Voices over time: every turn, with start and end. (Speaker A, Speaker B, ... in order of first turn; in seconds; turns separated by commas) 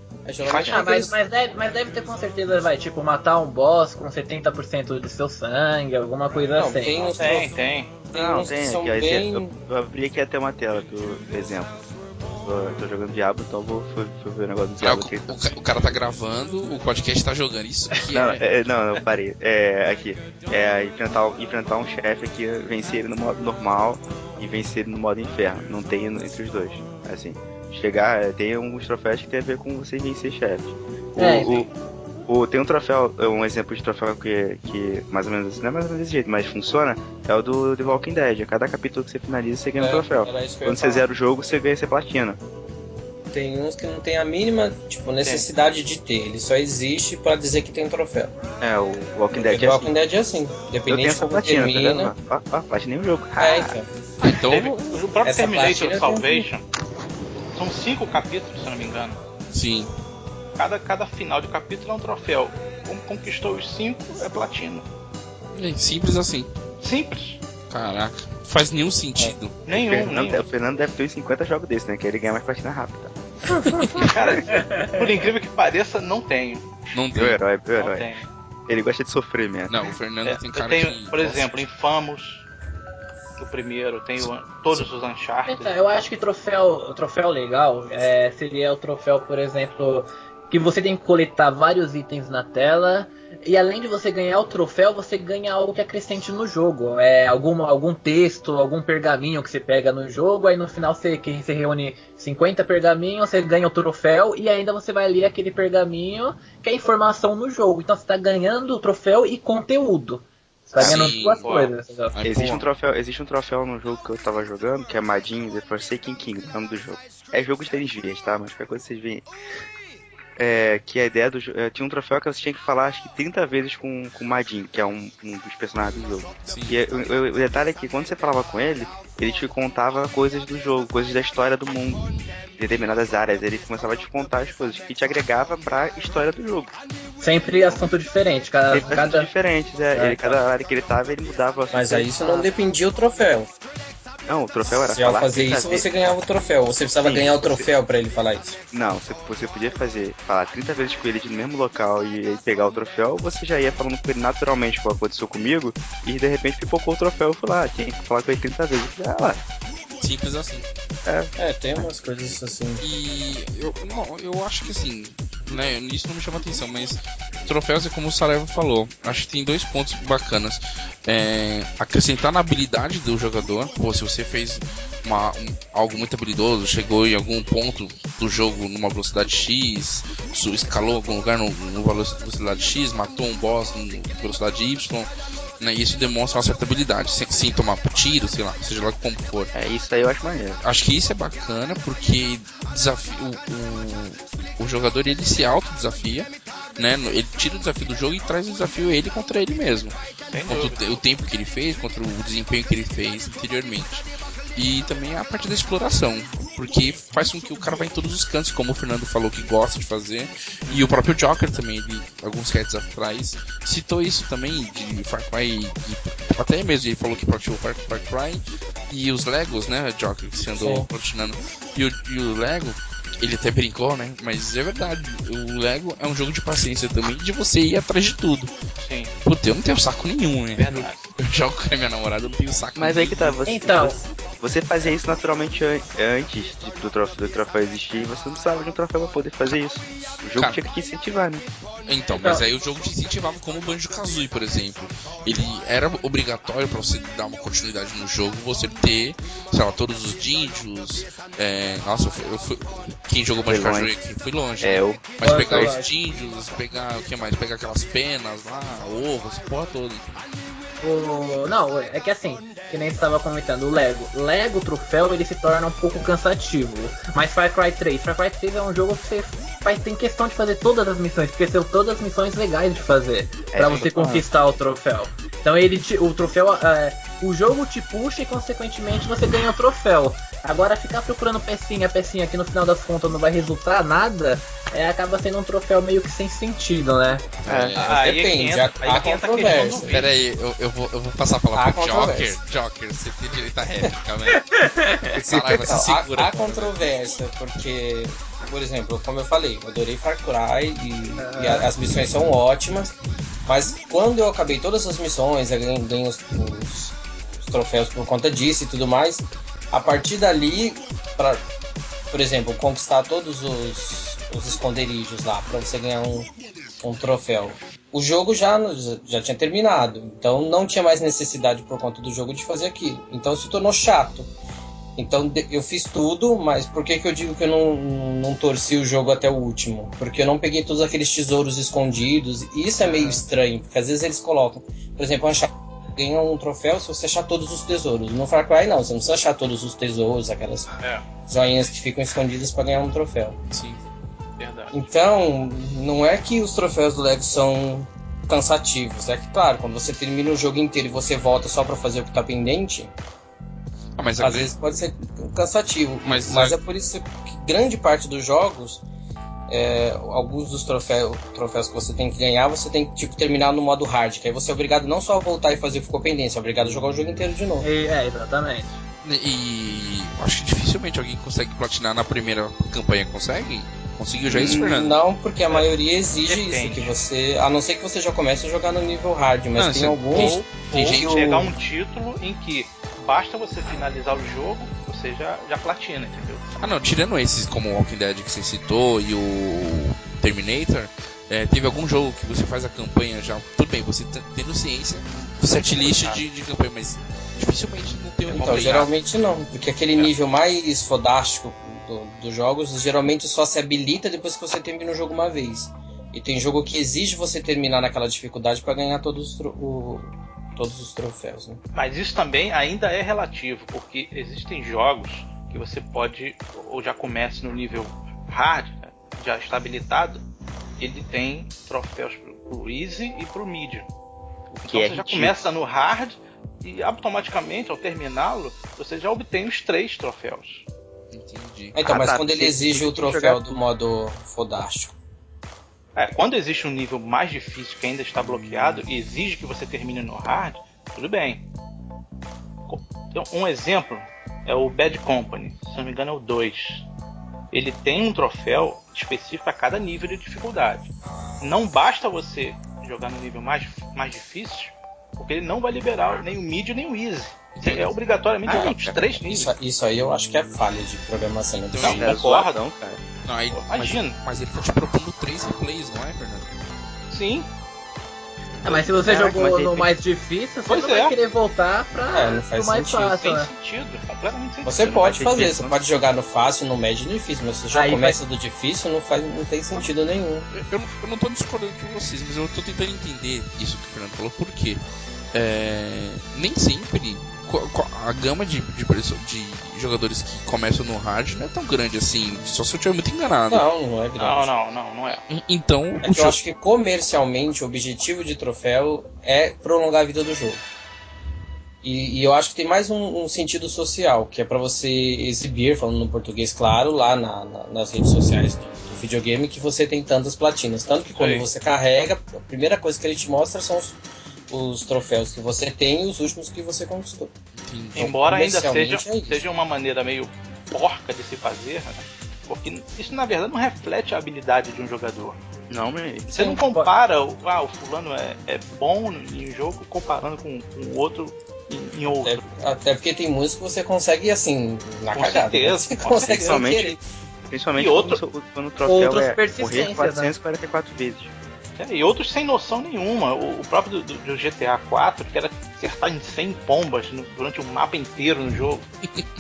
Speaker A: 0.2-1.1, Speaker B: 0.5-7.1, Speaker C: 0.5-0.8, Speaker A: 6.5-7.5, Speaker C: 7.2-8.1, Speaker A: 8.1-9.6, Speaker D: 8.1-11.8, Speaker D: 12.4-15.5, Speaker E: 14.8-18.4, Speaker D: 18.1-31.7, Speaker B: 31.2-31.7, Speaker D: 32.3-42.4, Speaker A: 39.8-41.1, Speaker A: 43.3-48.3, Speaker D: 48.6-49.9, Speaker A: 49.3-52.1, Speaker D: 50.9-53.8, Speaker A: 53.4-53.9, Speaker E: 54.2-55.1, Speaker C: 54.3-56.6, Speaker A: 55.2-56.5, Speaker C: 57.5-59.2, Speaker E: 59.5-59.9, Speaker C: 60.6-64.9, Speaker E: 65.5-66.5, Speaker C: 66.8-67.4, Speaker E: 67.7-69.7, Speaker C: 69.7-70.5, Speaker D: 69.7-74.6, Speaker C: 73.9-76.9, Speaker B: 74.5-74.9, Speaker E: 76.9-77.4, Speaker D: 77.1-78.1, Speaker C: 77.8-78.3, Speaker D: 78.7-79.9, Speaker E: 79.7-81.7, Speaker C: 80.2-82.5, Speaker C: 83.4-85.8, Speaker B: 85.5-112.2, Speaker D: 110.8-111.7, Speaker E: 110.8-111.5, Speaker E: 112.1-112.7, Speaker D: 112.2-119.3, Speaker D: 120.4-136.8, Speaker E: 126.5-126.9, Speaker B: 137.2-139.3, Speaker D: 138.7-142.2, Speaker B: 139.9-140.3, Speaker A: 141.7-143.5, Speaker B: 142.2-142.5, Speaker D: 144.3-145.9, Speaker A: 144.8-148.6, Speaker D: 147.0-147.7, Speaker D: 148.7-159.4, Speaker E: 160.0-160.7, Speaker D: 161.1-161.3, Speaker A: 161.4-162.8, Speaker E: 162.8-189.5, Speaker D: 189.5-190.6, Speaker E: 190.6-228.5, Speaker C: 200.3-200.9, Speaker A: 220.5-220.9, Speaker C: 228.8-229.1, Speaker E: 229.2-233.4, Speaker C: 230.6-231.1, Speaker D: 232.8-241.4, Speaker B: 233.5-234.1, Speaker E: 241.9-260.2, Speaker B: 242.2-242.4, Speaker D: 253.5-253.9, Speaker D: 254.6-255.8, Speaker B: 255.2-255.9, Speaker B: 260.8-287.2, Speaker D: 273.5-274.2, Speaker E: 287.4-288.0, Speaker D: 287.5-287.8, Speaker C: 287.8-290.1, Speaker A: 287.8-290.0, Speaker E: 289.9-294.5, Speaker A: 291.5-292.4, Speaker B: 294.3-295.1, Speaker E: 295.1-297.1, Speaker D: 295.1-295.7, Speaker A: 295.5-311.4, Speaker B: 301.2-301.7, Speaker A: 312.1-316.3, Speaker A: 316.8-324.3, Speaker A: 325.0-343.4, Speaker C: 340.8-341.1, Speaker E: 343.5-343.8, Speaker C: 344.4-344.9, Speaker A: 344.7-352.9, Speaker E: 354.0-354.6, Speaker A: 354.2-358.8, Speaker E: 356.1-356.6, Speaker A: 359.5-367.7, Speaker B: 367.6-368.7, Speaker E: 369.0-375.0, Speaker D: 374.3-374.7, Speaker A: 374.3-380.4, Speaker C: 376.2-376.9, Speaker E: 379.6-381.5, Speaker C: 380.1-386.4, Speaker E: 386.6-398.9, Speaker C: 395.8-396.2, Speaker A: 398.3-411.6, Speaker C: 411.8-420.2, Speaker C: 420.8-423.9, Speaker D: 424.5-425.4, Speaker C: 424.6-430.6, Speaker E: 431.1-431.8, Speaker A: 431.8-434.9, Speaker D: 431.8-433.6, Speaker C: 436.0-441.5, Speaker C: 442.7-446.9, Speaker C: 447.5-450.9, Speaker C: 451.4-459.6, Speaker E: 457.6-457.9, Speaker D: 458.4-459.2, Speaker A: 459.3-462.0, Speaker E: 461.5-462.2, Speaker D: 461.8-463.0, Speaker C: 461.9-462.6, Speaker E: 463.2-466.5, Speaker C: 463.5-464.2, Speaker C: 467.1-467.5, Speaker D: 468.6-469.9, Speaker B: 468.6-473.5, Speaker C: 470.7-471.2, Speaker A: 472.1-473.2, Speaker C: 473.1-475.2, Speaker A: 474.6-480.5, Speaker D: 474.9-475.8, Speaker B: 477.7-478.2, Speaker E: 480.5-484.8, Speaker E: 485.3-493.6, Speaker A: 493.5-494.5, Speaker C: 494.2-495.2, Speaker E: 495.3-496.4, Speaker A: 496.0-500.6, Speaker A: 501.8-514.0, Speaker C: 511.1-511.5, Speaker A: 514.5-517.3, Speaker E: 517.6-518.1, Speaker A: 518.0-519.4, Speaker C: 518.0-525.4, Speaker D: 525.7-526.7, Speaker C: 526.3-532.5, Speaker A: 532.2-537.0, Speaker C: 535.1-536.7, Speaker D: 536.2-537.0, Speaker D: 537.5-541.3, Speaker C: 537.7-538.2, Speaker B: 538.9-540.3, Speaker C: 541.8-548.8